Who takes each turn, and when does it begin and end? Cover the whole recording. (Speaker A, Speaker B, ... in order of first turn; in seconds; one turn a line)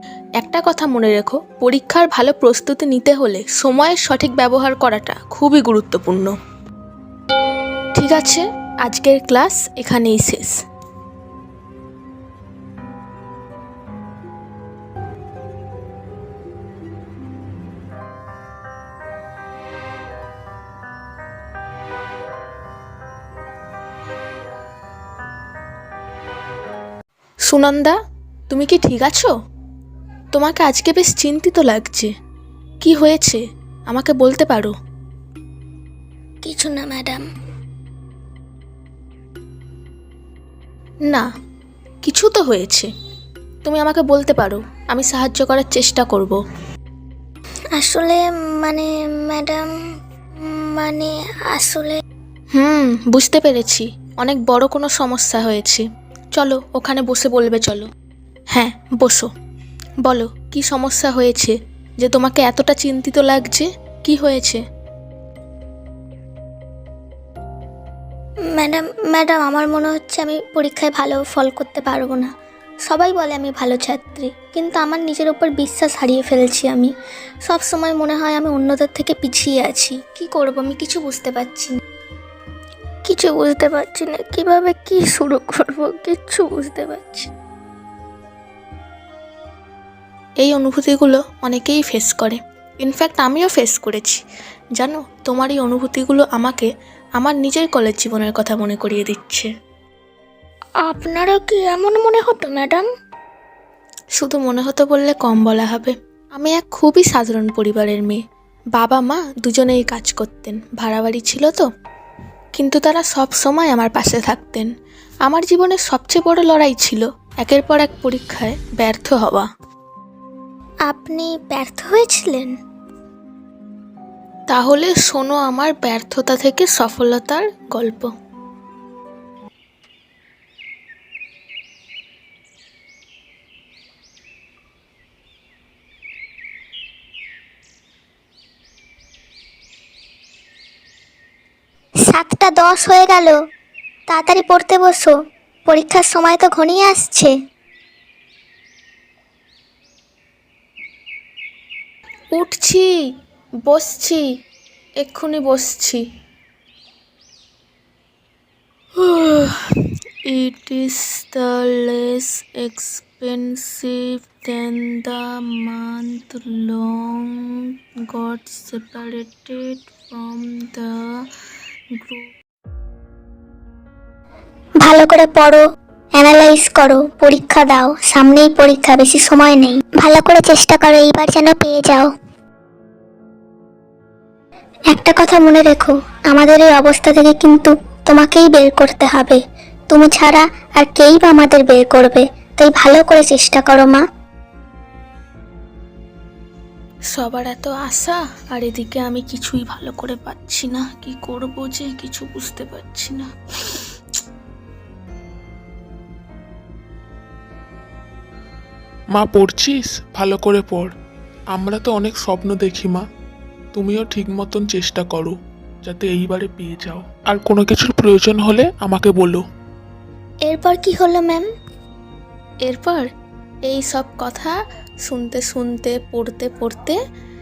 Speaker A: 0.4-6.3
Speaker A: 8.0-10.6
Speaker A: 27.4-28.0
Speaker A: 28.5-29.3
Speaker A: 30.3-32.1
Speaker A: 32.8-34.7
Speaker B: 36.5-37.2
Speaker A: 42.0-42.9
Speaker A: 43.6-46.4
Speaker B: 47.8-49.6
Speaker B: 50.4-52.0
Speaker A: 52.5-55.8
Speaker A: 56.4-57.9
Speaker A: 58.5-59.3
Speaker A: 60.0-64.6
Speaker B: 68.6-72.3
Speaker B: 72.9-76.8
Speaker B: 77.5-80.8
Speaker A: 80.2-81.3
Speaker B: 81.3-81.6
Speaker B: 83.1-87.3
Speaker A: 90.4-94.2
Speaker A: 94.8-99.5
Speaker B: 100.8-102.8
Speaker A: 104.2-108.2
Speaker A: 108.8-111.7
Speaker A: 112.5-114.7
Speaker A: 115.3-119.5
Speaker B: 120.9-122.5
Speaker A: 124.5-128.1
Speaker B: 142.1-143.4
Speaker B: 144.1-145.2
Speaker B: 145.7-147.3
Speaker A: 152.3-152.9
Speaker A: 153.7-154.2
Speaker A: 155.0-156.0
Speaker A: 159.0-159.6
Speaker A: 160.3-171.1
Speaker A: 172.0-172.3
Speaker B: 174.8-175.6
Speaker B: 176.2-182.1
Speaker B: 184.9-189.4
Speaker B: 189.9-194.0
Speaker A: 197.1-203.3
Speaker C: 209.1-210.9
Speaker C: 211.5-213.1
Speaker C: 213.7-219.4
Speaker B: 220.5-221.5
Speaker A: 222.7-223.1
Speaker A: 223.7-227.0